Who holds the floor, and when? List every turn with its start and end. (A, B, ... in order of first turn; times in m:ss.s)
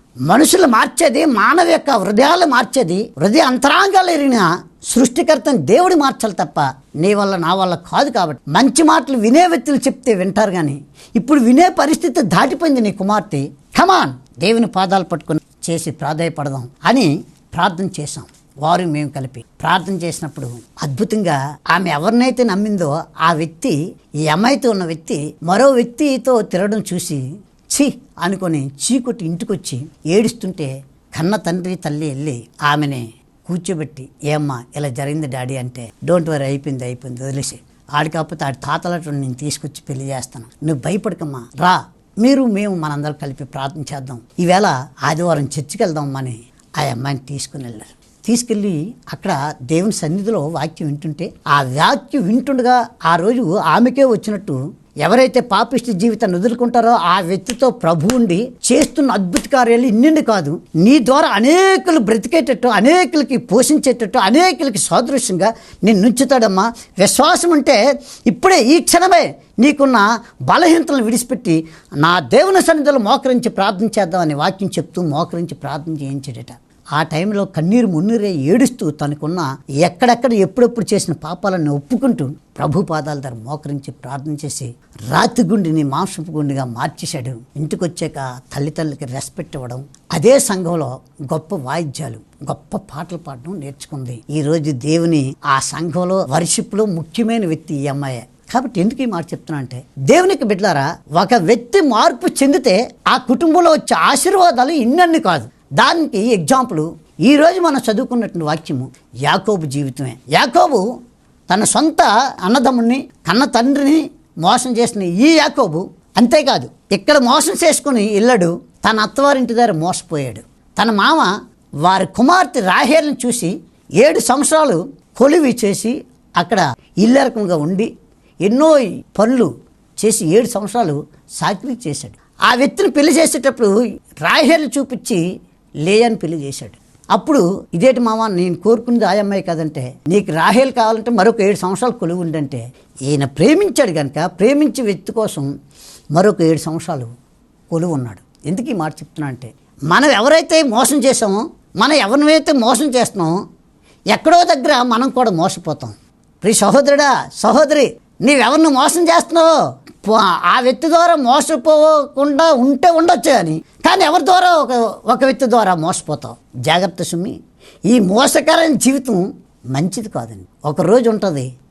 0:00.3-0:23.8 A
0:24.3-1:50.8 A
1:51.5-2:01.3 A
2:01.8-2:07.9 A
2:08.4-2:15.2 A
2:15.8-2:25.5 A
2:26.1-2:27.1 A
2:27.7-2:33.3 A
2:34.1-2:39.5 A
2:40.0-2:47.4 A
2:47.9-2:51.5 A